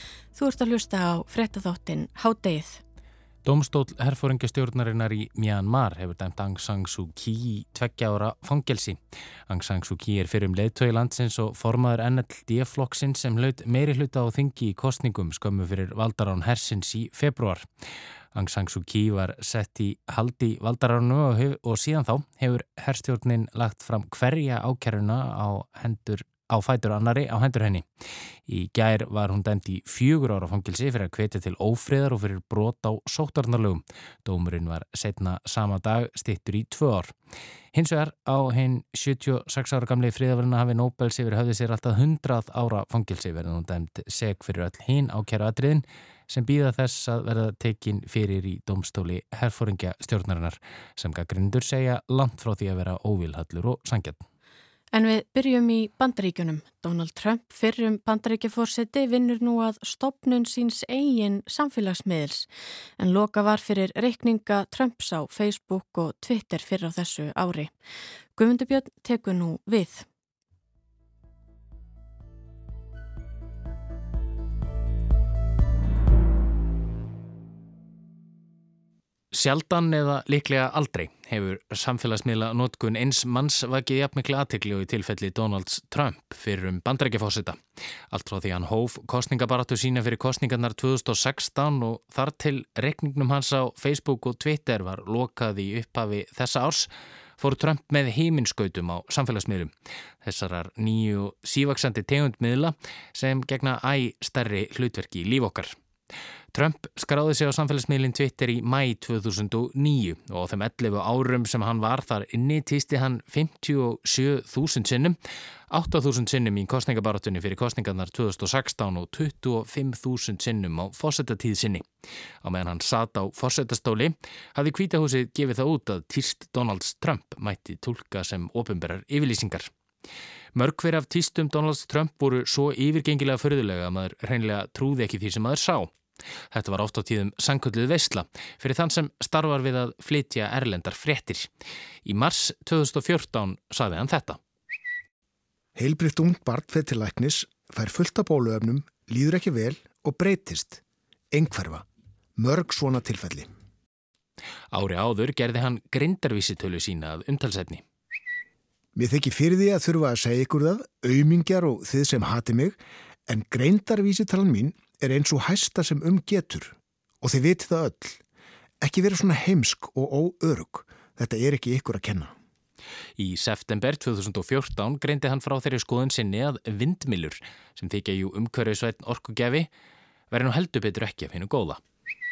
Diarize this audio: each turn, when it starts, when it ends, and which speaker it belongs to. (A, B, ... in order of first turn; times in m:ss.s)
0:00.3-0:02.8 A
0:03.4-0:09.0 B
0:09.5-0:17.6 B
0:18.3-0:27.8 B
0:28.5-0:37.1 B
0:37.7-0:54.2 B
0:54.9-1:02.5 A
1:03.0-1:07.7 A
1:08.3-1:10.0 A
1:19.3-1:27.6 B
1:28.1-1:39.7 B
1:40.2-1:45.7 B
1:46.5-1:55.2 B
1:55.7-2:01.8 B
2:02.4-2:09.7 B
2:10.5-2:15.9 B
2:16.5-2:21.5 B
2:22.0-2:24.4 B
2:25.8-2:30.8 C
2:31.3-2:31.8 C
2:32.4-2:33.5 C
2:34.7-2:37.8 B
2:38.9-2:48.2 C
2:48.8-2:52.3 C
2:53.2-2:59.7 B
3:00.3-3:01.8 B